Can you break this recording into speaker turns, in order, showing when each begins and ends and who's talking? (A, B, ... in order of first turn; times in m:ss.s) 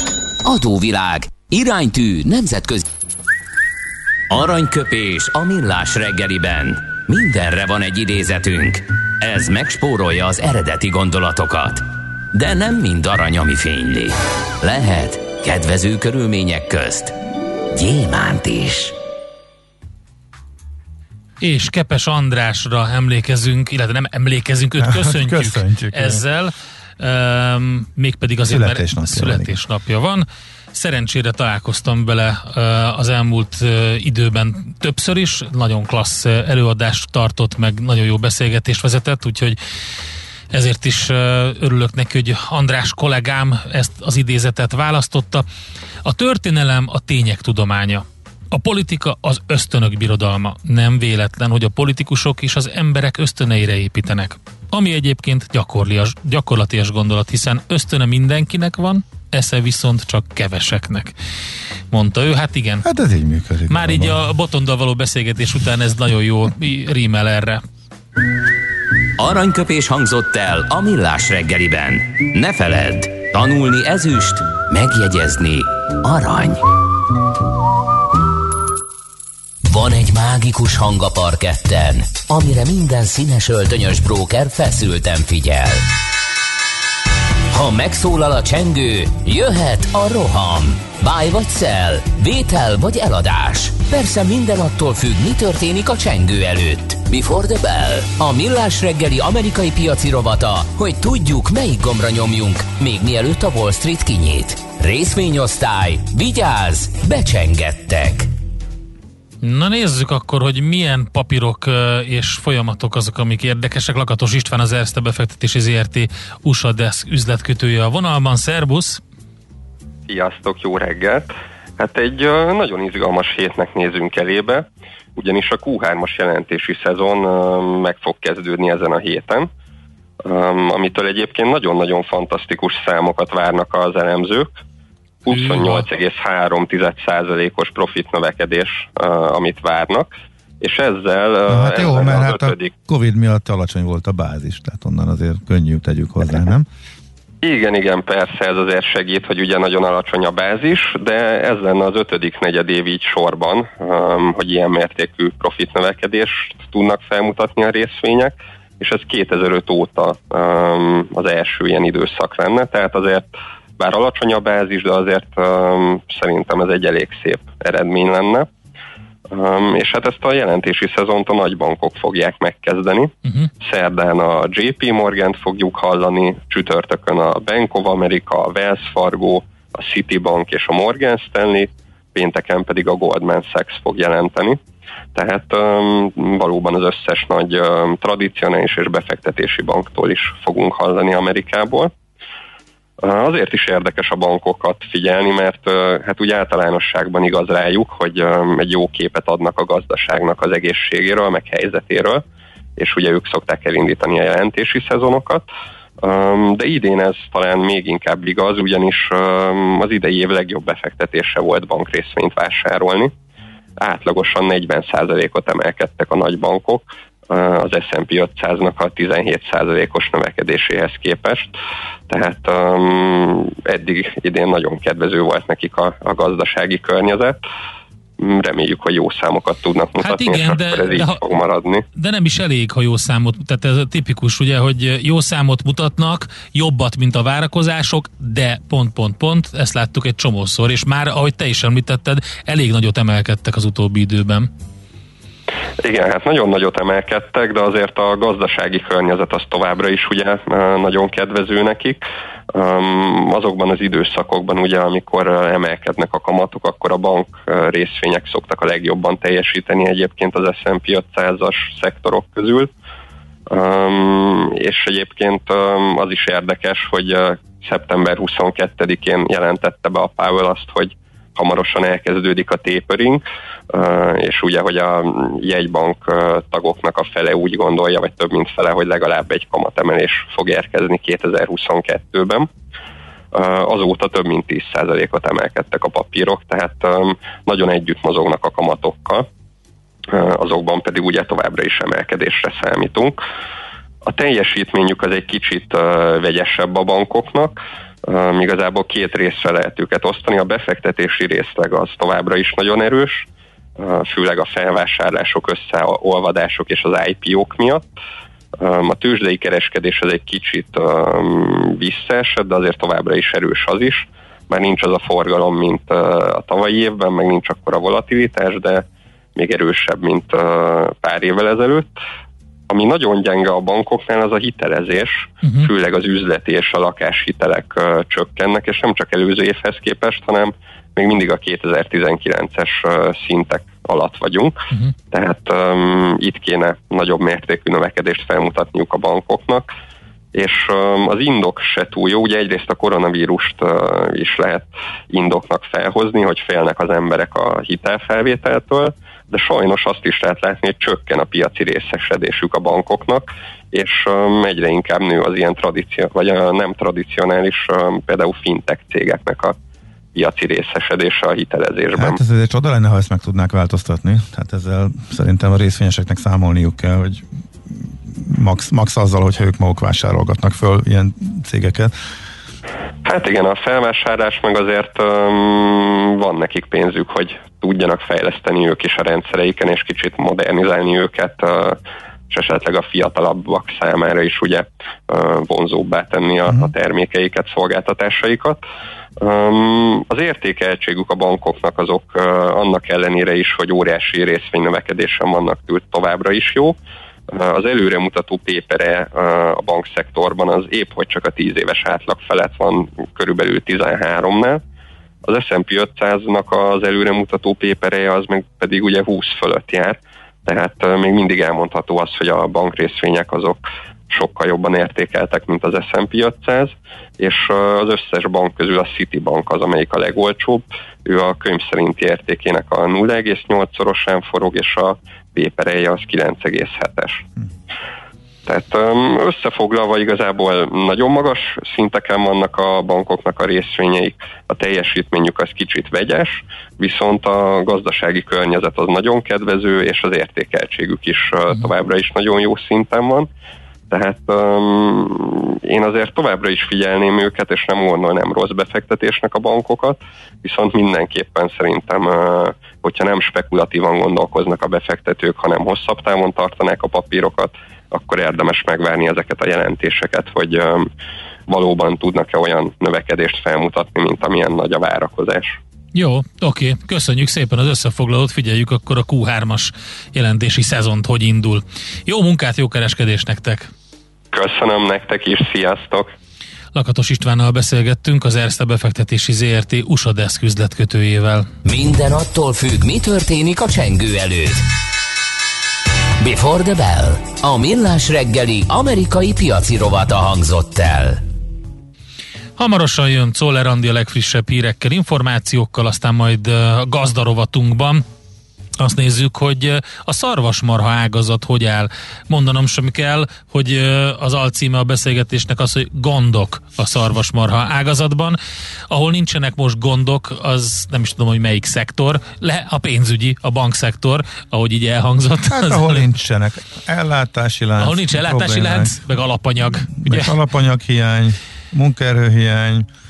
0:00.4-0:02.9 A
0:04.3-0:17.1 A
0:17.7-0:19.0 A
0:21.4-0:39.6 B
0:24.8-0:26.2 C
0:28.4-0:29.6 C
0:40.5-0:45.4 B
0:46.0-1:01.1 B
1:01.9-1:02.8 B
1:02.8-1:04.2 C
1:03.7-1:07.6 B
1:09.2-1:16.6 A
1:19.6-1:25.8 A
1:27.5-1:48.3 A
1:49.4-1:59.0 B
2:00.1-2:09.5 D
2:10.2-2:14.6 D
2:15.2-2:22.7 D
2:15.3-2:15.9 B
2:21.5-2:26.7 C
2:27.4-2:48.5 D
2:49.3-3:04.6 D
3:05.1-3:11.9 D
3:13.0-3:22.2 D
3:22.8-3:25.5 D
3:26.0-3:33.1 D
3:33.8-3:41.5 D
3:42.1-3:47.4 D
3:48.2-3:51.8 D
3:50.0-3:51.2 B
3:52.0-4:04.5 B
4:05.8-4:22.7 D
4:23.5-4:42.5 D
4:43.3-4:49.3 D
4:50.1-4:53.2 D
4:54.0-5:07.9 D
5:08.6-5:22.0 D
5:22.7-5:34.6 D
5:25.4-5:25.7 B
5:35.1-5:39.7 D
5:40.3-5:59.6 D
6:00.2-6:02.2 D
6:02.0-6:07.2 C
6:08.1-6:11.9 C
6:13.0-6:21.8 D
6:22.3-6:28.6 D
6:29.2-6:36.8 D
6:37.3-6:44.6 D
6:45.2-7:07.2 D
7:08.5-7:23.3 D
7:23.9-7:40.9 D
7:41.5-7:45.6 D
7:45.9-7:53.7 B
7:54.3-7:56.1 D
7:56.7-8:01.5 B
8:01.6-8:04.6 A
8:06.2-8:11.2 A
8:12.6-8:18.0 B
8:18.8-8:28.4 B
8:28.9-8:36.1 B
8:35.5-8:39.0 C
8:37.8-8:40.3 B
8:39.9-8:42.9 C